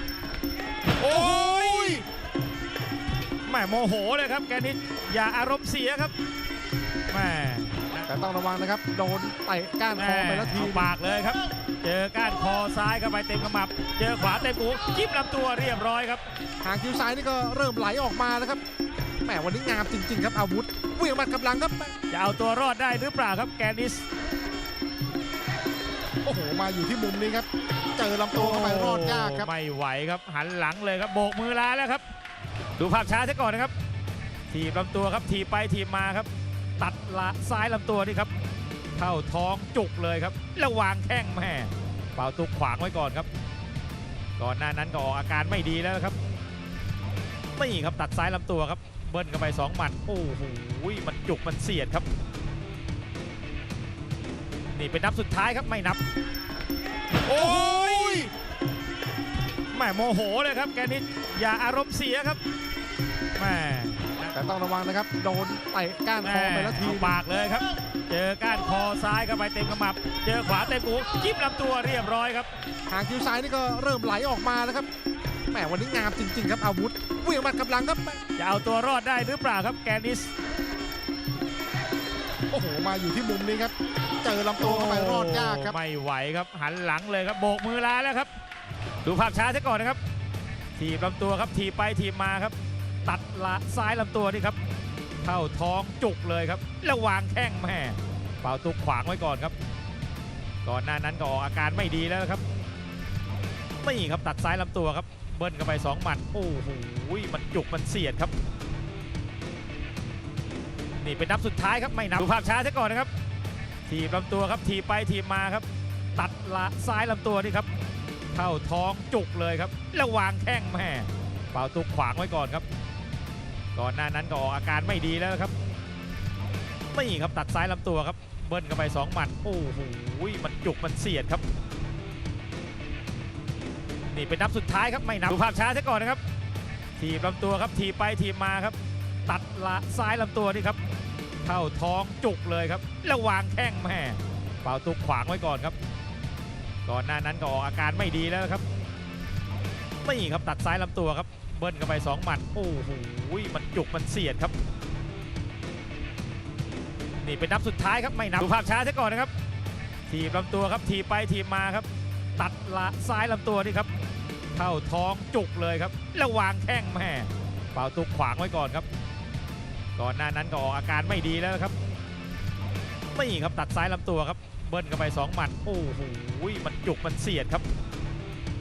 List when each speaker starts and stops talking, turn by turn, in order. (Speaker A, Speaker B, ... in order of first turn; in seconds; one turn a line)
Speaker A: 1.0-2.0
Speaker B: 1.0-2.0
Speaker A: 3.5-6.1
Speaker A: 7.1-8.1
Speaker B: 8.1-10.9
Speaker A: 9.9-16.2
Speaker B: 16.6-18.6
Speaker B: 19.3-22.0
Speaker A: 22.1-24.1
Speaker B: 26.2-29.5
Speaker A: 28.3-32.0
Speaker A: 32.8-33.7
Speaker A: 34.5-38.3
Speaker A: 39.0-43.3
Speaker A: 44.4-46.2
Speaker A: 47.6-52.1
Speaker A: 54.7-56.0
Speaker A: 57.3-58.3
Speaker B: 57.3-58.2
Speaker A: 59.7-62.4
Speaker A: 63.4-64.3
Speaker B: 64.3-67.2
Speaker A: 66.2-72.5
Speaker B: 72.9-74.9
Speaker B: 75.5-78.2
Speaker A: 78.4-80.3
Speaker B: 82.5-85.8
Speaker A: 84.6-88.3
Speaker A: 89.0-90.0
Speaker A: 90.8-94.6
Speaker A: 95.2-99.5
Speaker A: 100.7-102.4
Speaker A: 103.8-108.3
Speaker A: 111.0-113.1
Speaker A: 113.9-115.7
Speaker A: 116.2-117.7
Speaker A: 118.3-122.7
Speaker A: 123.8-125.5
Speaker A: 126.9-131.4
Speaker A: 134.1-136.2
Speaker A: 137.0-138.8
Speaker A: 139.3-140.8
Speaker A: 141.4-145.8
Speaker A: 146.9-148.6
Speaker A: 150.0-154.5
Speaker A: 157.2-159.3
Speaker A: 160.1-163.9
Speaker A: 164.6-168.9
Speaker A: 170.0-171.7
Speaker A: 173.1-177.6